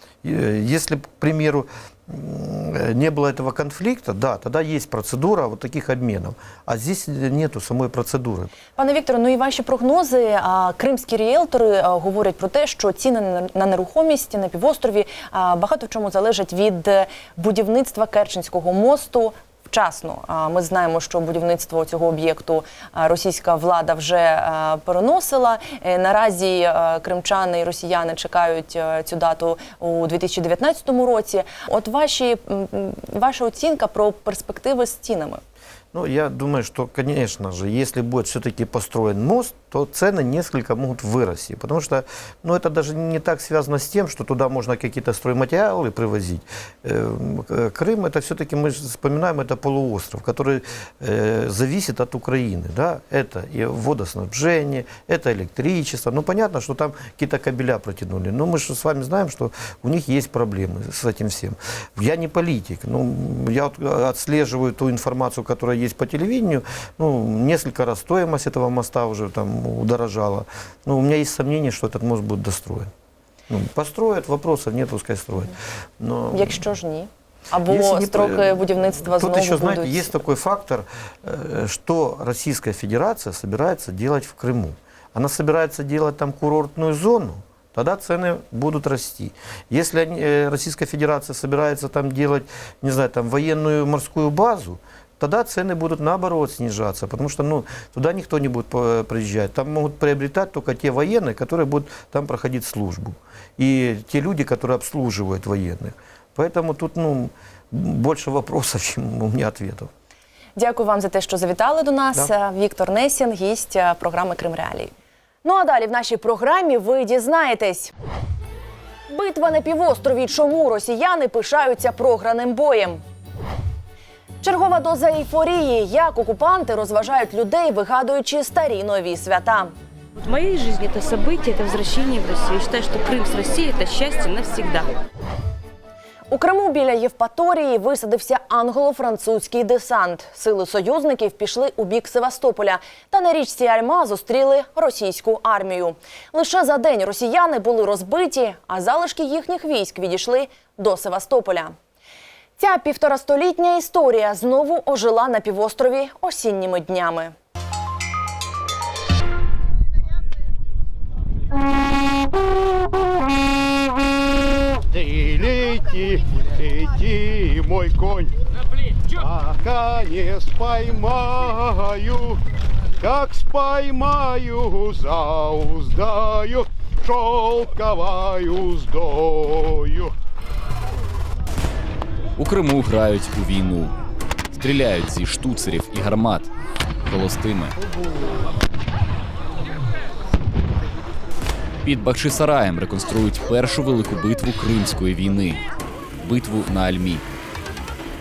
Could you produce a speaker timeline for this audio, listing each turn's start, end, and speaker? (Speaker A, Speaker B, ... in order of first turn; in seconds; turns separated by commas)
Speaker A: 0.2-8.5, Speaker B: 8.8-35.4, Speaker A: 35.9-72.9, Speaker A: 73.5-76.7, Speaker B: 76.3-80.2, Speaker A: 77.7-109.9, Speaker B: 110.6-114.9, Speaker B: 115.4-117.9, Speaker B: 119.1-123.0, Speaker B: 124.4-129.7, Speaker C: 130.2-135.0, Speaker B: 136.3-151.7, Speaker B: 152.6-157.3, Speaker D: 165.0-168.3, Speaker D: 169.2-172.3, Speaker D: 173.0-180.1, Speaker E: 182.4-183.9, Speaker E: 184.5-186.5, Speaker E: 187.1-187.7, Speaker E: 191.8-195.6, Speaker E: 196.2-197.2